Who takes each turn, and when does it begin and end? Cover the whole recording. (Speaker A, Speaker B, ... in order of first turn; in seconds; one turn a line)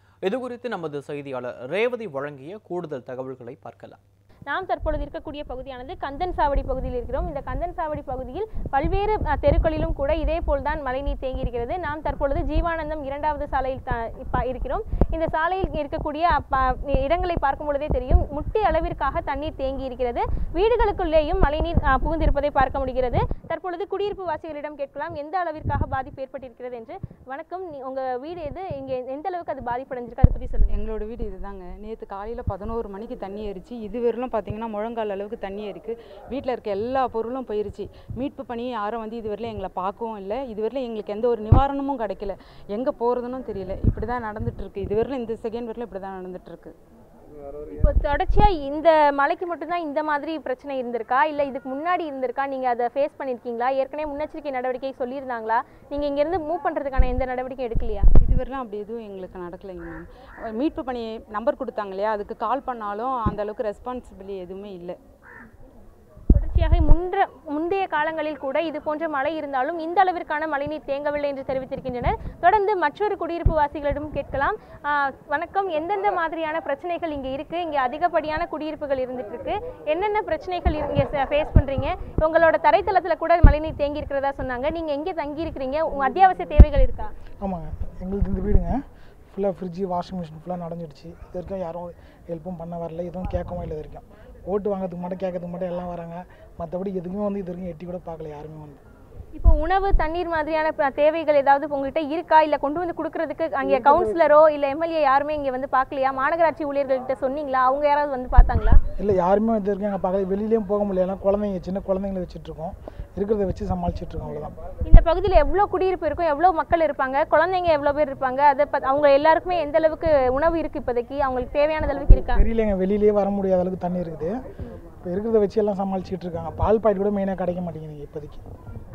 Speaker A: 0.2-4.0
Speaker B: 4.5-30.8
Speaker C: 30.7-46.7
Speaker B: 47.7-58.1
Speaker C: 58.2-65.0
Speaker B: 66.3-87.1
Speaker D: 87.4-88.8
Speaker D: 89.3-98.8
Speaker B: 99.3-108.8
Speaker D: 103.6-104.2
Speaker D: 109.0-114.5
Speaker B: 114.8-122.4
Speaker D: 122.3-124.4
Speaker D: 125.0-128.4